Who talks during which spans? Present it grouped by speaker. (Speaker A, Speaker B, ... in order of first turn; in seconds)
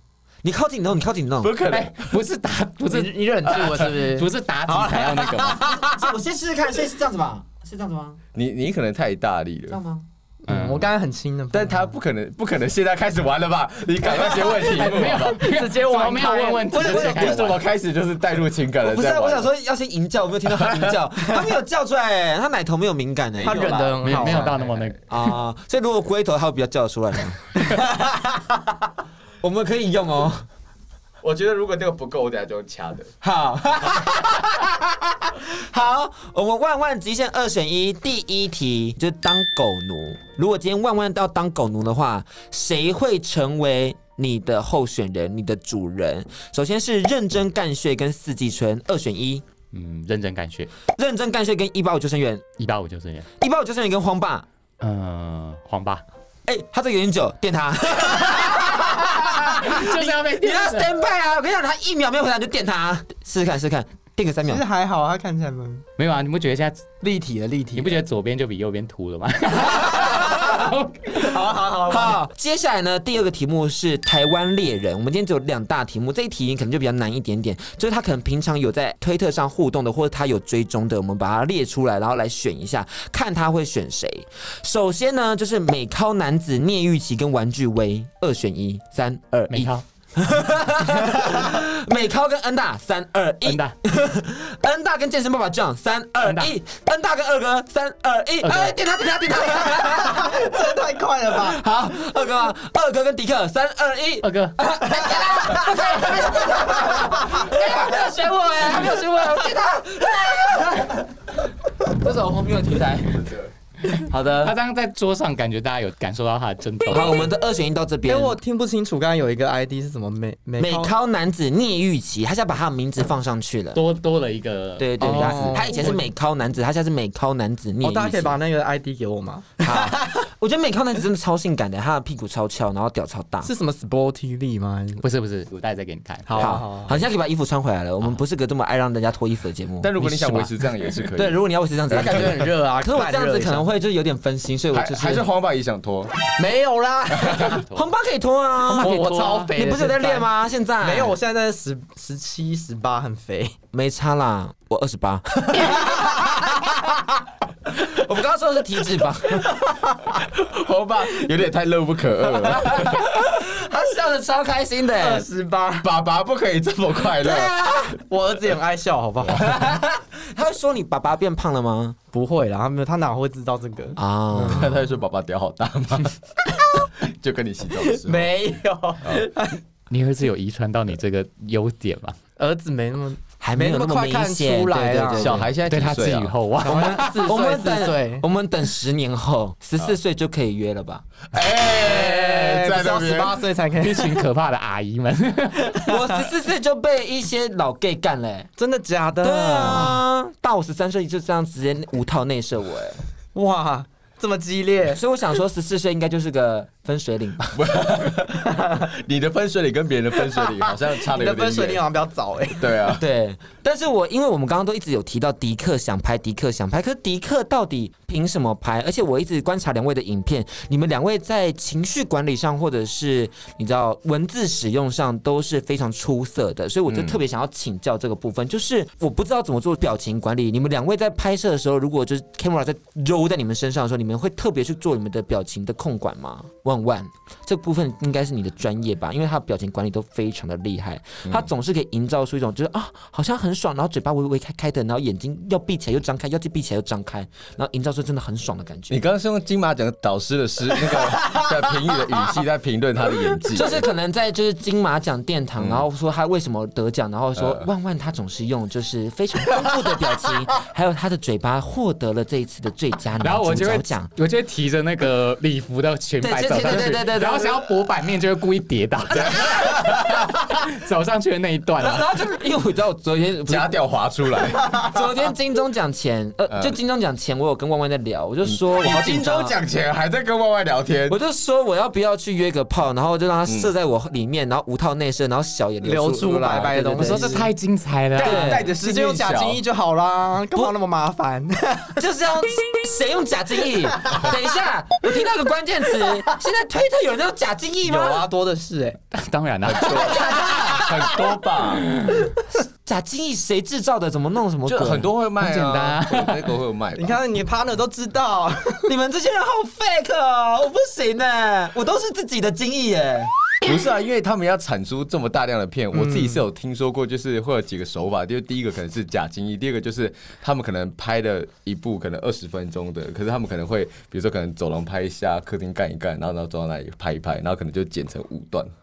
Speaker A: 0.4-1.5, 5.9-8.2, 9.7-10.1, 16.7-17.6, 18.8-23.8, 25.1-27.6, 29.4-30.5, 33.2-49.4, 50.9-52.4, 53.4-54.5, 56.5-64.7, 71.9-100.6, 101.3-113.3, 114.1-114.5, 116.9-118.4, 120.6-123.8, 124.8-128.4, 129.6-133.5, 136.3-140.5, 141.1-145.3, 147.7-151.2, 153.7-156.8, 157.7-159.6, 162.5-165.3, 167.2-168.0, 169.3-172.0, 174.0-174.8, 183.4-185.5, 186.6-191.1, 195.9-198.5, 199.2-203.0, 204.9-207.6, 213.0-249.0, 253.5-264.1, 266.2-267.6, 271.8-273.8, 274.9-279.6, 281.1-287.5, 288.2-288.7, 292.0-298.3, 302.9-305.1, 308.9-313.3
Speaker B: 1.4-2.2, 8.3-9.8, 11.5-15.4, 16.7-19.5, 20.5-21.0, 23.4-24.9, 31.2-33.1, 113.2-113.5, 139.8-142.5, 144.7-146.2, 160.2-163.3, 165.8-167.6, 174.5-176.2, 177.0-178.5, 185.1-186.3, 191.3-193.5, 207.5-211.8, 212.6-213.0, 226.9-227.2, 248.9-253.9, 255.6-255.9, 257.4-257.7, 269.4-270.3, 273.5-274.9, 276.5-276.8, 278.4-281.2, 283.5-283.7, 288.2-289.6, 299.7-301.9, 304.7-307.2, 313.6-328.7
Speaker C: 1.7-5.7, 10.5-10.9, 14.6-17.6, 24.0-25.4, 49.7-50.7, 52.6-53.3, 54.8-56.0, 59.3-60.9, 66.0-66.8, 67.8-71.2, 89.5-89.8, 93.5-93.8, 96.2-96.5, 98.4-98.8, 104.2-104.7, 114.3-117.3, 123.7-125.7, 135.0-136.6, 147.5-147.9, 148.7-149.6, 179.9-182.2, 185.7-187.3, 193.8-195.9, 263.2-272.1, 287.0-288.5, 299.1-300.8, 301.8-302.3, 305.4-306.4
Speaker D: 2.9-6.2, 10.5-12.0, 14.1-17.3, 23.4-24.6, 64.5-65.8, 67.0-68.1, 69.7-72.2, 99.6-101.6, 105.0-105.7, 106.7-107.4, 118.1-120.9, 125.0-126.1, 127.8-130.2, 133.4-135.0, 136.3-137.0, 141.9-143.7, 146.4-147.7, 148.7-153.6, 155.5-156.3, 165.0-165.9, 168.0-169.8, 172.1-174.8, 177.8-179.6, 182.4-185.4, 186.6-188.2, 191.7-194.2, 195.7-196.3, 198.6-200.0, 203.3-205.0, 208.5-208.8, 210.3-212.8, 285.8-287.5, 288.3-292.0, 297.9-299.0, 307.0-308.9, 315.9-316.4